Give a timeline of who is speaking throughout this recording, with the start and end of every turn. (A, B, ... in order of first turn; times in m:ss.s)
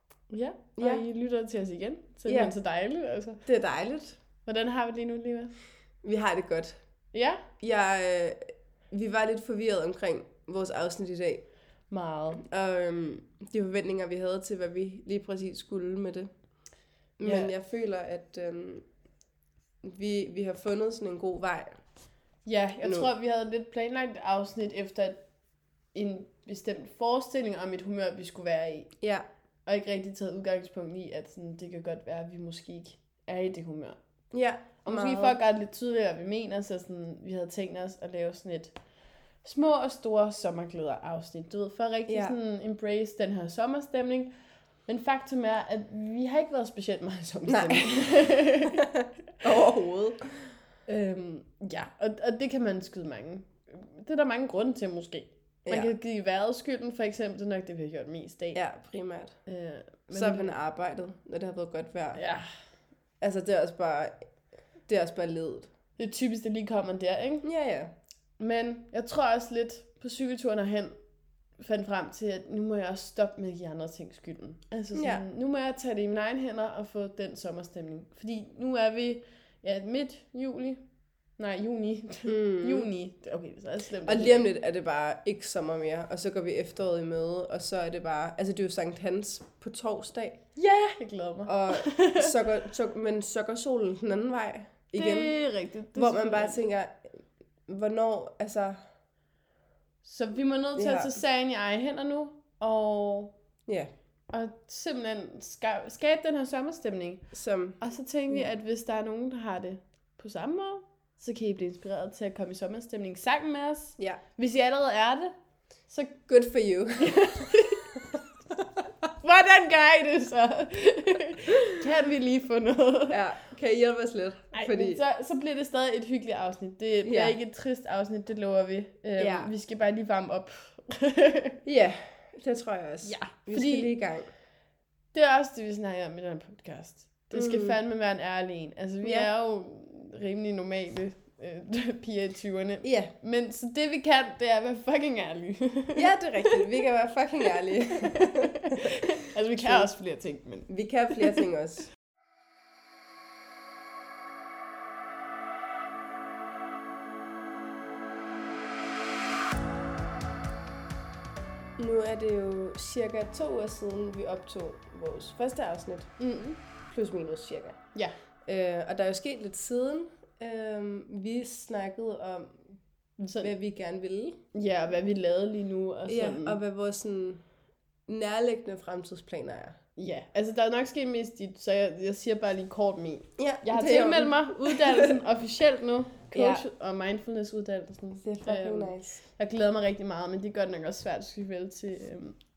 0:00.3-0:03.4 A
0:00.8-0:01.0 B
0:02.2-0:02.5 B
0:03.4-0:04.2 B
0:04.4-0:05.5 A
0:06.0-0:06.8 B
0:07.1-0:07.4 A
0:07.6-0:08.4 B
0:08.9-0:11.4 B
0:11.9-0:12.4 A
0:12.4-0:16.3 B
0:17.2-0:18.8 B
0:17.2-0:17.5 A
0:19.8-0:21.8 B
0:22.4-0:25.2 A
0:22.8-0:23.1 B
0:25.9-0:28.9 A
0:29.0-0:29.2 B
0:29.6-0:34.0 A
0:34.3-0:35.4 B
0:34.8-0:38.8 A
0:39.4-0:44.3 A
0:42.1-0:42.3 B
0:44.9-0:48.9 A
0:47.5-0:50.5 B
0:50.9-0:58.6 A
0:58.5-0:59.4 B
0:59.4-1:00.5 A
1:00.1-1:02.2 B
1:02.1-1:02.5 A
1:03.2-1:04.2 B
1:04.9-1:05.7 B
1:06.0-1:07.4 A
1:07.4-1:07.9 B
1:08.4-1:10.9 A
1:11.6-1:20.8 A
1:14.9-1:15.2 B
1:21.4-1:24.4 A
1:22.2-1:22.9 B
1:24.0-1:30.9 B
1:30.6-1:32.3 A
1:31.4-1:35.3 B
1:34.9-1:36.6 A
1:35.9-1:37.1 B
1:37.7-1:38.8 B
1:40.0-1:43.3 A
1:40.8-1:41.1 B
1:44.3-1:47.2 A
1:47.3-1:47.8 B
1:47.8-1:55.3 A
1:55.9-1:56.2 A
1:56.3-1:57.5 B
1:57.0-1:58.0 A
1:59.2-2:03.2 A
2:03.1-2:05.0 B
2:04.5-2:11.6 A
2:07.0-2:07.3 B
2:09.1-2:09.5 B
2:11.6-2:14.3 B
2:13.0-2:13.9 A
2:15.1-2:26.6 A
2:17.3-2:17.8 B
2:19.0-2:19.3 B
2:22.8-2:23.1 B
2:25.9-2:29.0 B
2:27.9-2:31.4 A
2:29.5-2:29.9 B
2:30.7-2:31.8 B
2:41.8-2:46.1 B
2:46.2-2:46.6 A
2:46.9-2:47.8 B
2:48.4-2:52.6 B
2:53.2-2:53.5 A
2:53.3-2:54.4 B
2:54.5-2:56.6 A
2:56.1-2:57.4 B
2:58.1-2:59.8 B
3:00.0-3:12.4 A
3:03.4-3:05.2 B
3:06.3-3:06.6 B
3:08.2-3:09.2 B